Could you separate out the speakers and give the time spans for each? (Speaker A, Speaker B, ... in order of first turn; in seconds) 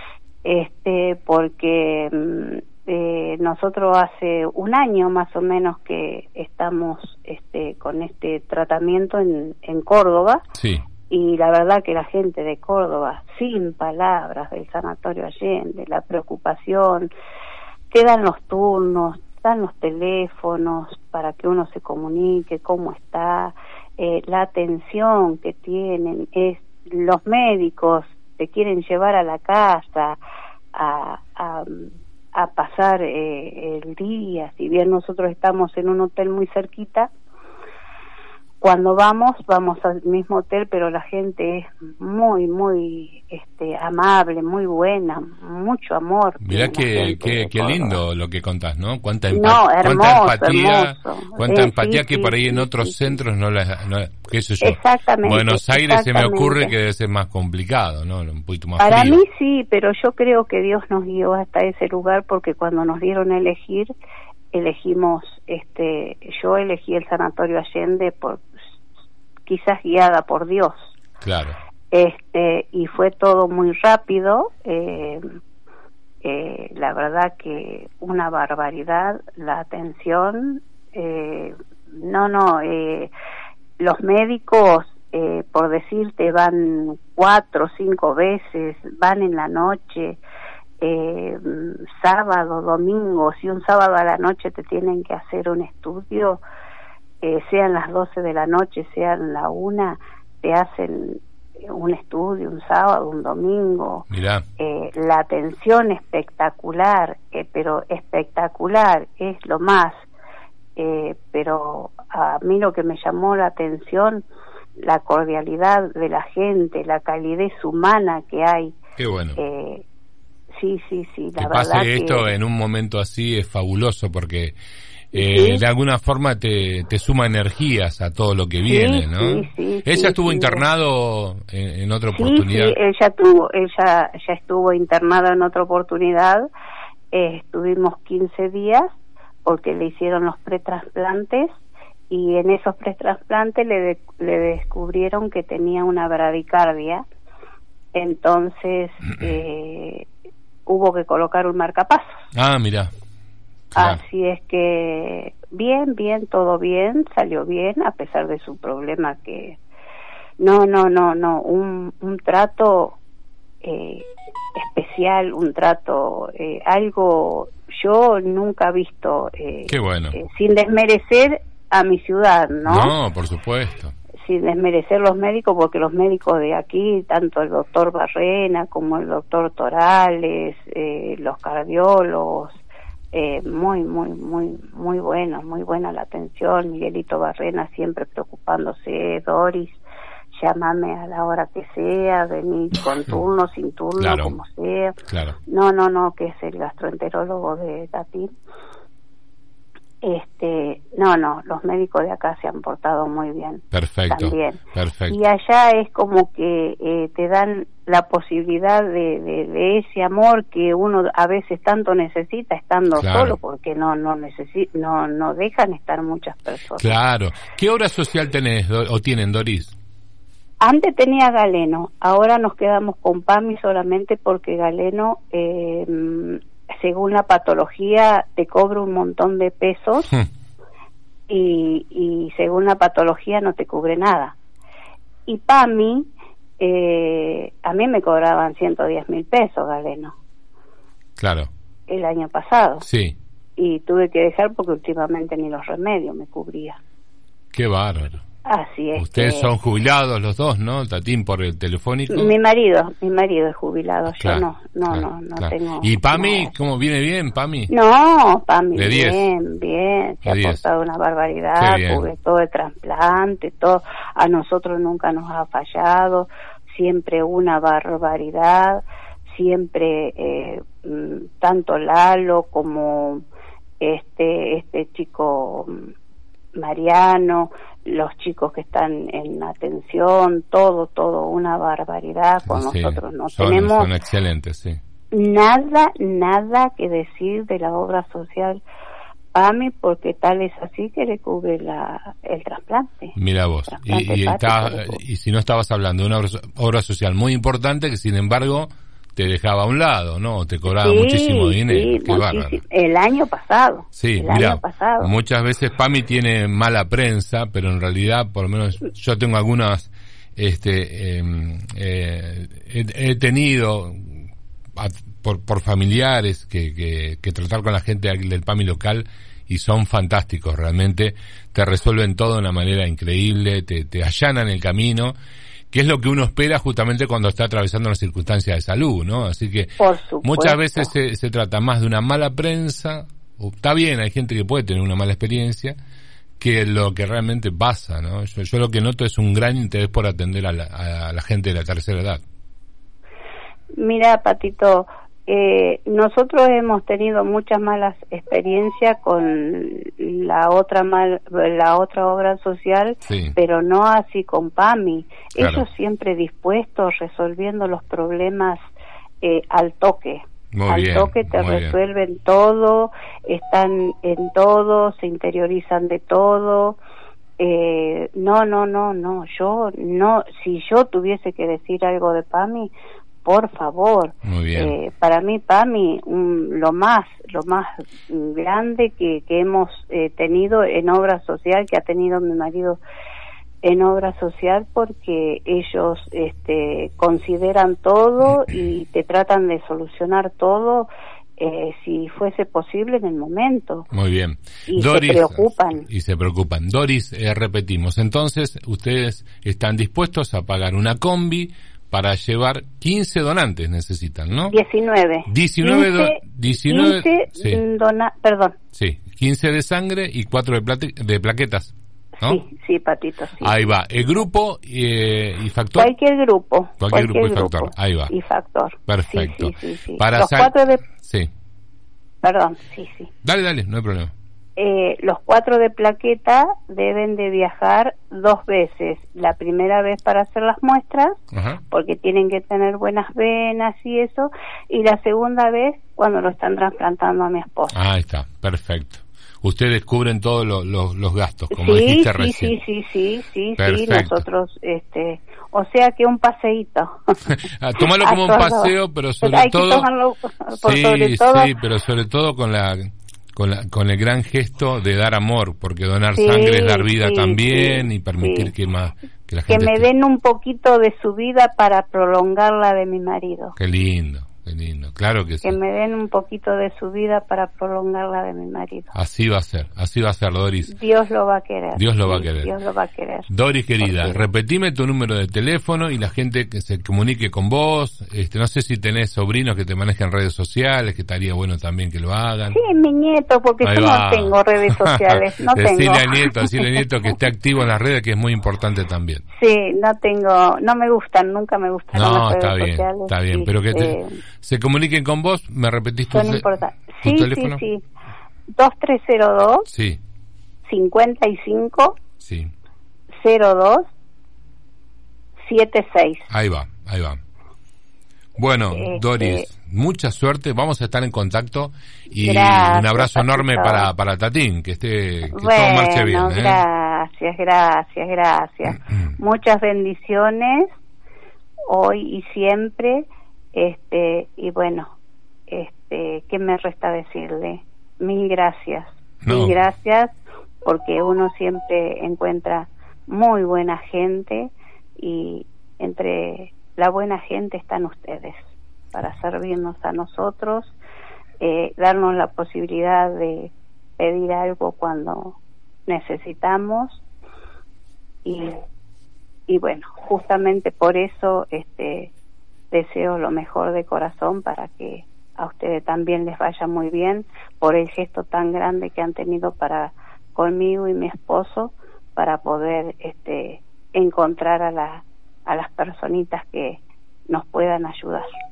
Speaker A: 0.4-10.4, 11.1-17.1, 17.9-30.2, 30.7-37.1, 38.6-48.0, 49.3-53.1, 54.6-56.7, 58.8-63.9, 64.5-68.5, 69.5-70.9, 71.9-75.2, 76.2-83.1, 83.8-90.2, 90.8-96.4, 97.2-104.1, 104.6-110.0, 110.8-114.2, 114.8-118.7, 119.3-119.8, 120.5-122.3, 125.1-125.6, 128.6-130.6, 132.1-136.5, 137.1-138.9, 139.4-141.5, 142.1-147.0, 147.9-150.1, 150.7-152.2, 153.7-159.6, 160.4-163.0, 163.6-172.9, 174.2-182.6, 183.1-189.8, 190.3-194.9, 195.5-198.3, 200.0-217.0, 220.6-230.1, 231.3-234.3, 235.3-240.1, 241.9-242.8, 243.6-246.8, 248.4-249.5, 252.1-256.5, 257.7-273.2, 273.8-275.9, 276.6-283.9, 285.1-288.6, 289.3-293.1, 293.7-295.0, 300.7-305.1, 329.8-330.9, 343.8-358.6, 359.2-366.8, 367.4-372.7, 373.2-382.8, 383.6-393.9, 394.7-395.9, 404.5-408.6, 412.2-413.6, 415.8-420.8, 422.2-423.1, 424.6-431.2, 431.7-437.8, 441.5-447.1, 447.8-451.5, 456.1-458.5, 459.5-463.6, 465.4-468.9, 470.7-473.3, 473.8-474.2, 482.5-486.8, 489.4-494.2, 496.1-497.8, 498.5-499.7, 500.6-501.9, 503.2-503.9, 505.4-506.3, 508.7-509.5, 512.2-513.9, 515.3-520.7, 521.7-524.9, 525.5-530.1, 530.6-540.7, 541.4-547.0, 548.2-548.5, 549.5-552.1, 552.7-568.3
Speaker B: 10.5-10.8, 46.4-59.2, 71.2-71.5, 104.1-104.4, 119.0-119.4, 121.4-124.6, 125.1-132.8, 152.3-152.9, 153.7-154.0, 169.7-170.2, 172.6-173.9, 194.0-194.4, 195.1-195.3, 203.7-205.2, 212.9-213.4, 216.8-219.7, 241.2-241.5, 242.8-243.2, 247.5-248.2, 248.9-252.3, 254.1-257.7, 258.8-259.3, 260.2-260.6, 261.6-262.1, 282.5-284.8, 293.1-302.6, 303.9-325.1, 325.7-335.8, 336.4-342.2, 353.1-353.4, 355.4-355.6, 360.5-361.8, 374.2-374.7, 393.9-404.6, 405.3-407.6, 408.7-412.4, 413.4-415.9, 416.8-418.1, 418.9-421.3, 423.2-424.1, 431.3-431.6, 437.7-442.5, 443.6-444.2, 447.2-449.9, 450.5-459.8, 463.6-465.6, 468.9-470.7, 471.8-472.5, 473.3-482.6, 483.6-489.2, 491.9-496.4, 497.0-497.6, 499.7-500.0, 502.2-502.5, 506.3-507.2, 508.4-516.6, 529.2-529.6